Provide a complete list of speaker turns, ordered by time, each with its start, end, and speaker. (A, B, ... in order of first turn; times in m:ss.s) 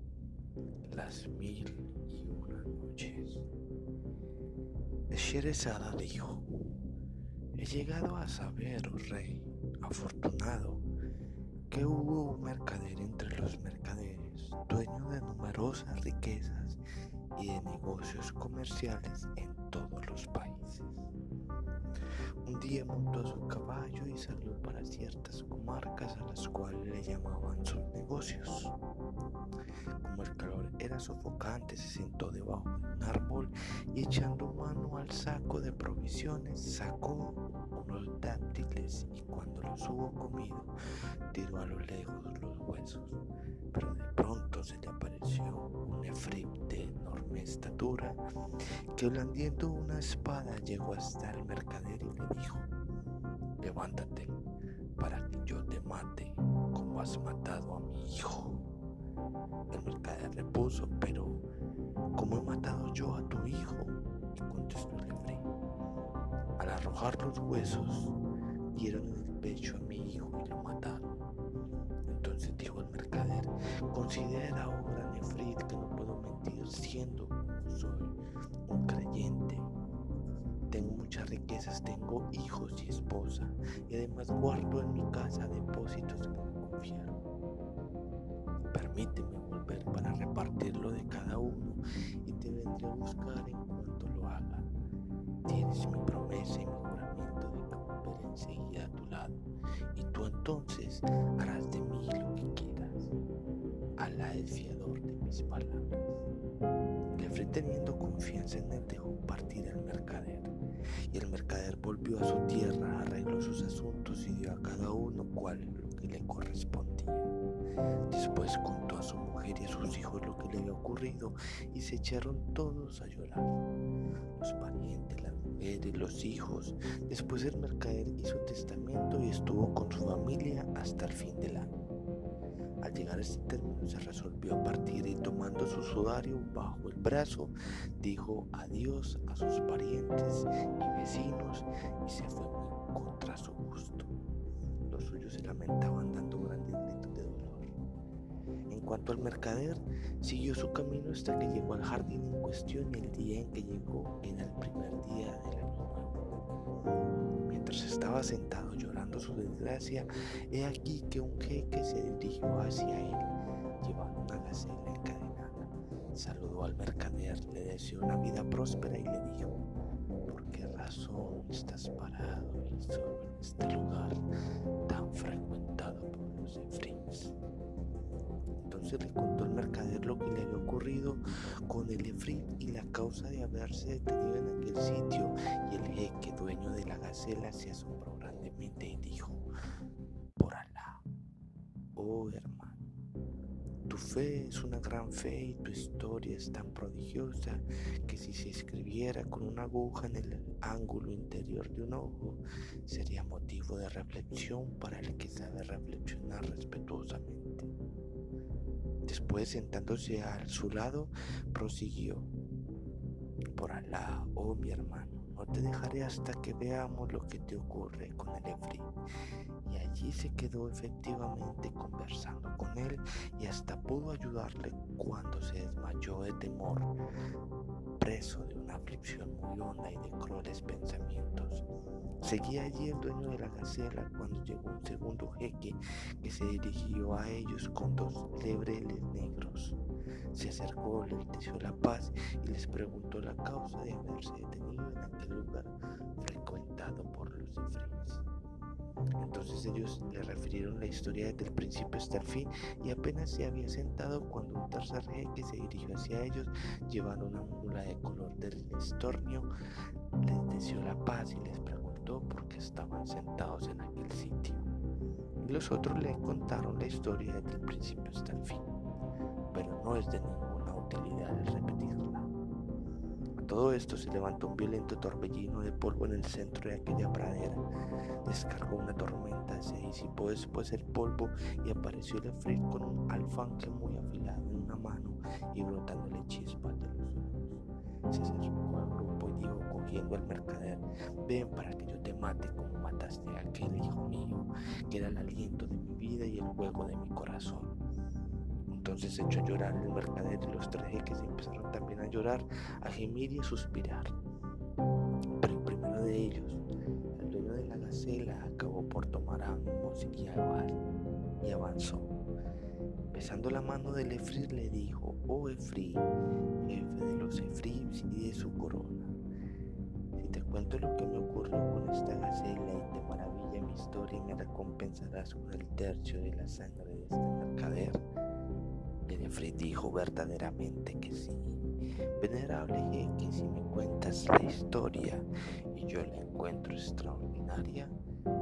0:00.8-0:03.5 A
0:05.1-0:06.5 A
0:07.6-0:10.8 A
0:11.7-0:16.8 A
0:17.4-0:21.1 A
0:22.4-0:28.8 A
0:30.0-0:40.7 A
0:41.3-0:43.2 A
0:43.7-0:48.2 A
0:49.0-0:52.7 A
0:53.6-0:54.4 A
0:55.0-0:58.7 A
0:59.7-1:01.4 A
1:02.2-1:05.5 A
1:06.6-1:08.2 A
1:08.7-1:11.2 A
1:12.1-1:19.7 A
1:20.7-1:27.2 A
1:28.7-1:34.7 A
1:35.5-1:39.4 A
1:39.9-1:43.1 A
1:44.0-1:46.2 A
1:47.1-1:50.5 A
1:51.1-1:57.3 A
1:58.1-2:03.6 A
2:04.4-2:11.7 A
2:12.8-2:24.1 A
2:24.9-2:27.7 A
2:28.7-2:36.2 A
2:37.5-2:49.7 A
2:50.3-2:54.2 A
2:54.9-2:57.4 A
2:58.6-3:09.5 A
3:10.4-3:11.0 A
3:12.0-3:12.8 A
3:13.9-3:27.7 A
3:29.1-3:32.3 A
3:33.5-3:38.9 A
3:39.6-3:46.9 A
3:48.0-3:51.7 A
3:52.2-3:59.8 A
4:00.3-4:08.2 A
4:09.2-4:19.5 A
4:20.2-4:24.7 A
4:25.4-4:28.7 A
4:29.5-4:32.3 A
4:33.4-4:37.6 A
4:38.2-4:57.8 A
4:58.7-5:04.1 A
5:05.4-5:06.6 A
5:07.2-5:10.8 A
5:11.4-5:12.1 A
5:13.1-5:16.1 A
5:16.6-5:19.2 A
5:20.2-5:28.0 A
5:29.1-5:31.6 A
5:32.2-5:37.9 A